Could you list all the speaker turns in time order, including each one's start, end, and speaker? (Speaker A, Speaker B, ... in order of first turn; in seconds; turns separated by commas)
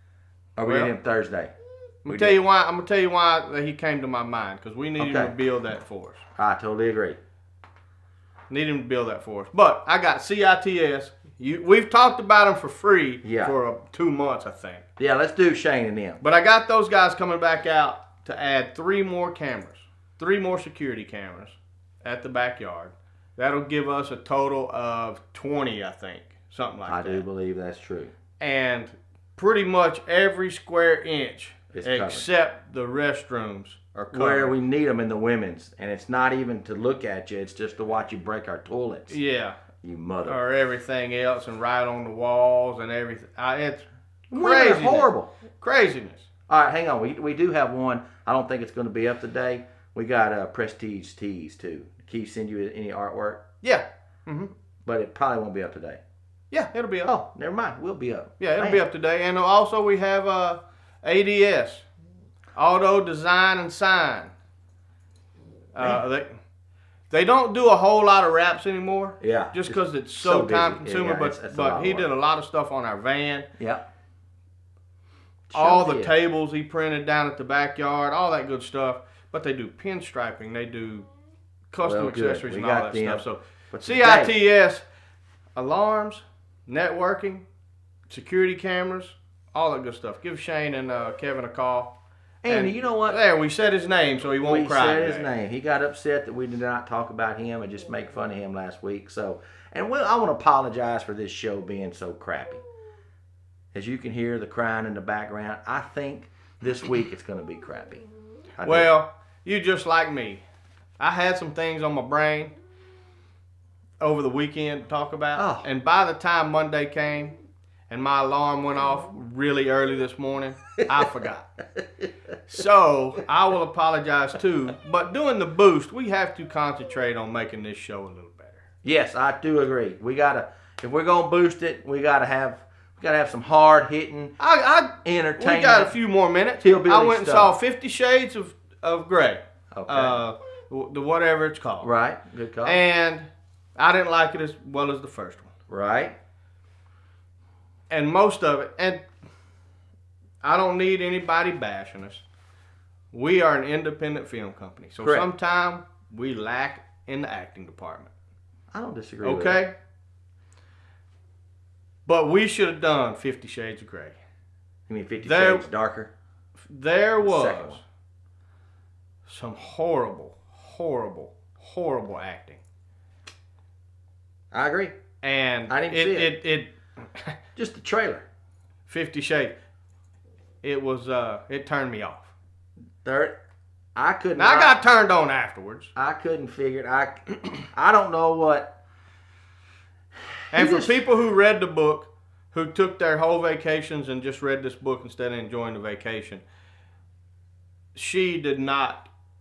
Speaker A: 0.6-1.5, Speaker B: 0.6-0.9, Speaker A: 2.1-2.4, Speaker B: 2.1-6.2, Speaker A: 5.0-5.3, Speaker A: 6.4-7.2, Speaker B: 8.5-14.8, Speaker A: 13.2-13.6, Speaker A: 15.0-16.2, Speaker B: 16.2-27.2, Speaker A: 26.9-28.1, Speaker B: 28.4-34.5, Speaker A: 31.7-32.3, Speaker A: 34.1-39.2, Speaker B: 39.1-39.7, Speaker A: 39.8-40.4, Speaker B: 40.2-46.3, Speaker A: 44.3-45.3, Speaker A: 46.5-53.4, Speaker B: 53.6-54.5, Speaker A: 54.9-56.0, Speaker B: 56.5-57.1, Speaker A: 57.0-58.8, Speaker B: 58.4-61.9, Speaker B: 62.5-64.3, Speaker B: 65.7-66.4, Speaker B: 67.1-73.5, Speaker A: 69.2-72.1, Speaker A: 73.6-73.8, Speaker A: 75.5-76.1, Speaker B: 75.5-81.1, Speaker B: 81.7-84.9, Speaker A: 81.8-84.3, Speaker B: 85.6-87.5, Speaker B: 88.1-92.0, Speaker A: 92.4-93.2, Speaker B: 92.5-95.3, Speaker A: 94.4-102.6, Speaker A: 103.7-108.0, Speaker A: 108.6-108.9, Speaker B: 108.7-110.4, Speaker B: 111.0-112.6, Speaker B: 114.0-117.4, Speaker A: 115.4-115.7, Speaker B: 117.9-121.5, Speaker A: 120.8-121.1, Speaker B: 122.5-128.7, Speaker A: 128.8-134.4, Speaker B: 134.4-141.9, Speaker A: 135.0-136.0, Speaker A: 136.6-137.6, Speaker A: 139.7-140.2, Speaker A: 141.8-142.8, Speaker B: 142.6-145.5, Speaker A: 145.7-146.2, Speaker B: 147.9-149.0, Speaker B: 150.4-152.2, Speaker B: 153.1-158.1, Speaker A: 155.0-155.3, Speaker A: 158.7-159.7, Speaker B: 159.2-159.7, Speaker B: 162.1-164.2, Speaker A: 164.9-166.1, Speaker B: 165.2-165.7, Speaker B: 166.7-167.8, Speaker A: 167.2-167.8, Speaker B: 169.3-172.6, Speaker A: 174.5-175.0, Speaker B: 175.2-177.4, Speaker A: 175.7-176.4, Speaker A: 177.6-178.3, Speaker B: 178.9-179.5, Speaker B: 180.6-182.3, Speaker A: 183.0-183.3, Speaker A: 184.0-184.8, Speaker B: 184.4-185.9, Speaker A: 185.9-188.8, Speaker A: 190.5-191.0, Speaker B: 190.5-196.4, Speaker B: 197.9-199.1